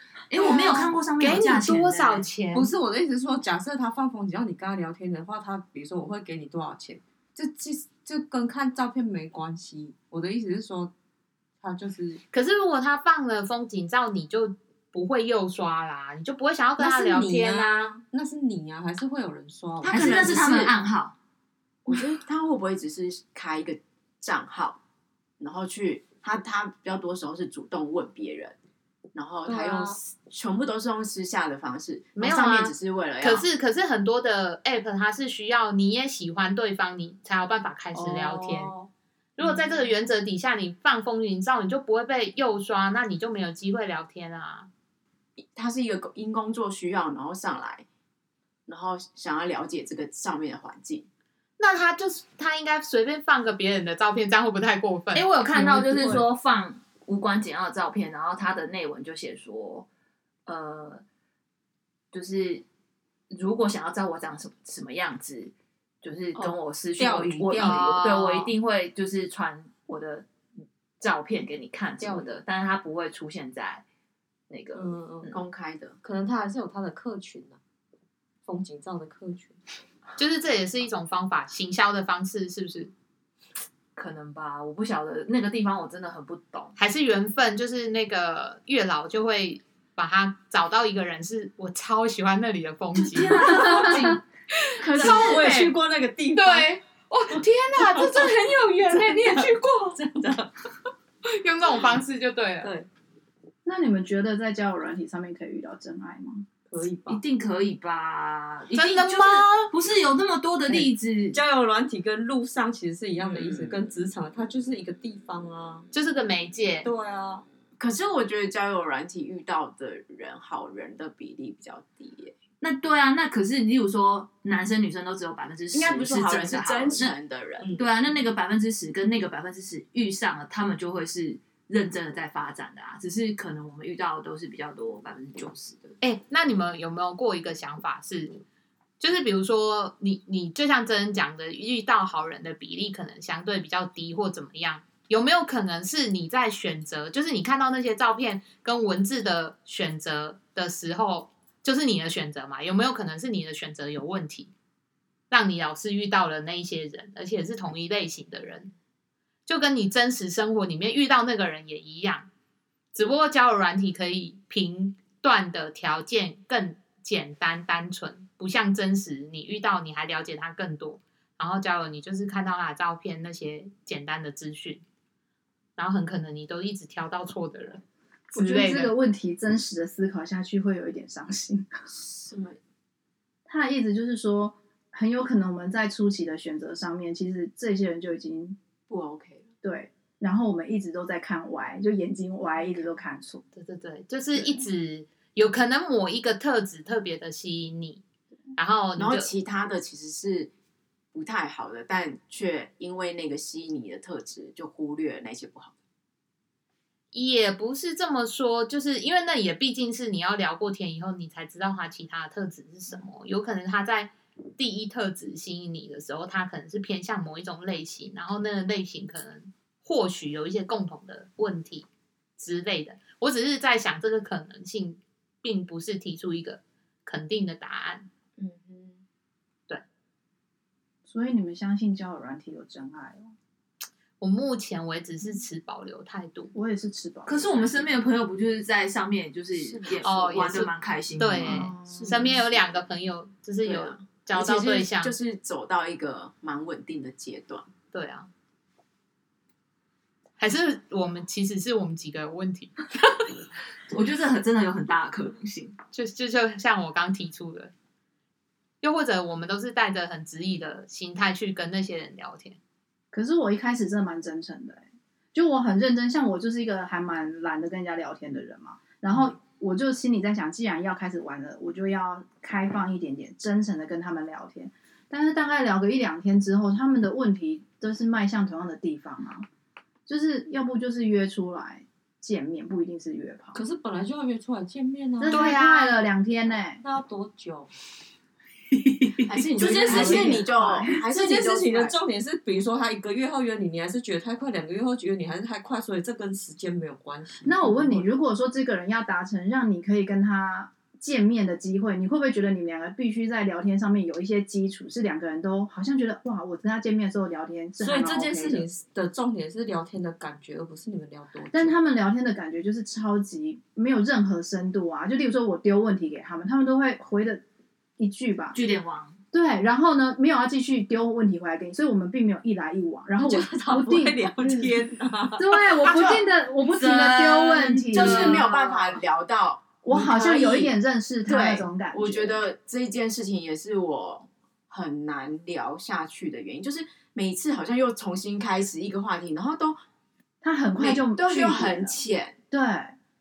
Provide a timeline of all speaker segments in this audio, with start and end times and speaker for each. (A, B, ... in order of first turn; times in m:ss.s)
0:00.3-0:02.3 A
0:00.4-0:02.7 B
0:02.5-0:10.9 C
0:11.6-0:12.2 C
0:12.3-0:18.0 B
0:16.8-0:20.5 C
0:19.8-0:20.8 D
0:19.9-0:21.2 A
0:21.9-0:24.8 D
0:25.4-0:28.6 D
0:29.1-0:33.5 D
0:29.4-0:30.0 C
0:32.2-0:38.7 B
0:37.9-0:38.9 C
0:39.4-0:44.7 B
0:45.4-0:47.9 D
0:48.7-0:51.1 D
0:51.6-0:55.3 B
0:55.1-0:59.9 A
1:00.5-1:01.0 A
1:02.1-1:02.6 A
1:03.3-1:10.3 A
1:06.4-1:08.0 C
1:07.6-1:08.5 B
1:11.0-1:13.8 A
1:12.0-1:12.3 C
1:14.5-1:14.9 A
1:14.8-1:15.4 C
1:15.3-1:16.0 D
1:16.0-1:17.6 C
1:18.4-1:19.6 C
1:20.2-1:22.9 B
1:24.0-1:26.8 A
1:26.8-1:33.9 B
1:33.1-1:34.1 A
1:33.2-1:34.2 C
1:34.6-1:35.8 B
1:34.8-1:35.4 D
1:34.9-1:36.7 C
1:36.4-1:40.0 B
1:37.3-1:40.5 C
1:41.3-1:42.7 B
1:42.6-1:42.9 C
1:43.6-1:46.4 E
1:46.7-1:47.2 C
1:47.1-1:51.4 A
1:48.7-1:49.7 B
1:50.7-1:55.9 C
1:55.9-1:56.9 B
1:56.8-1:57.4 C
1:57.8-2:02.3 D
2:02.6-2:07.2 A
2:05.7-2:07.7 D
2:07.6-2:07.9 C
2:07.7-2:16.0 A
2:16.0-2:18.4 B
2:19.0-2:34.5 B
2:35.3-2:38.7 B
2:39.5-2:42.3 B
2:43.0-2:54.8 B
2:55.8-2:57.8 B
2:58.3-2:58.9 B
2:58.3-3:01.7 E
3:01.9-3:02.6 D
3:03.5-3:08.6 E
3:08.9-3:09.5 D
3:09.6-3:13.4 E
3:12.6-3:13.0 D
3:13.5-3:18.0 B
3:14.4-3:14.6 E
3:18.6-3:19.3 B
3:19.0-3:20.5 D
3:21.1-3:25.8 D
3:27.1-3:41.9 B
3:42.4-3:48.1 B
3:48.4-3:49.0 D
3:51.1-3:53.3 E
3:54.2-3:56.5 B
3:56.5-3:57.9 E
3:57.3-4:01.7 A
3:59.5-4:00.3 D
4:00.0-4:05.2 B
4:01.4-4:02.4 E
4:01.4-4:02.6 D
4:03.6-4:07.7 D
4:07.9-4:08.3 B
4:10.4-4:12.8 B
4:13.9-4:15.8 A
4:15.9-4:17.7 B
4:18.8-4:22.6 B
4:23.1-4:39.5 E
4:40.1-4:43.6 E
4:43.6-4:45.5 C
4:45.2-4:46.8 E
4:45.3-4:46.0 B
4:46.8-4:47.7 C
4:48.8-4:49.7 A
4:49.2-4:52.0 D
4:49.6-4:58.1 C
4:49.6-4:51.0 E
4:57.4-5:08.7 E
5:07.8-5:11.8 C
5:11.5-5:17.4 E
5:18.0-5:18.6 E
5:18.5-5:19.2 A
5:19.3-5:24.8 E
5:23.2-5:25.5 C
5:25.4-5:28.5 E
5:25.9-5:26.2 D
5:26.6-5:28.9 A
5:27.9-5:39.8 D
5:29.8-5:32.4 E
5:40.4-5:43.0 E
5:40.8-5:42.4 D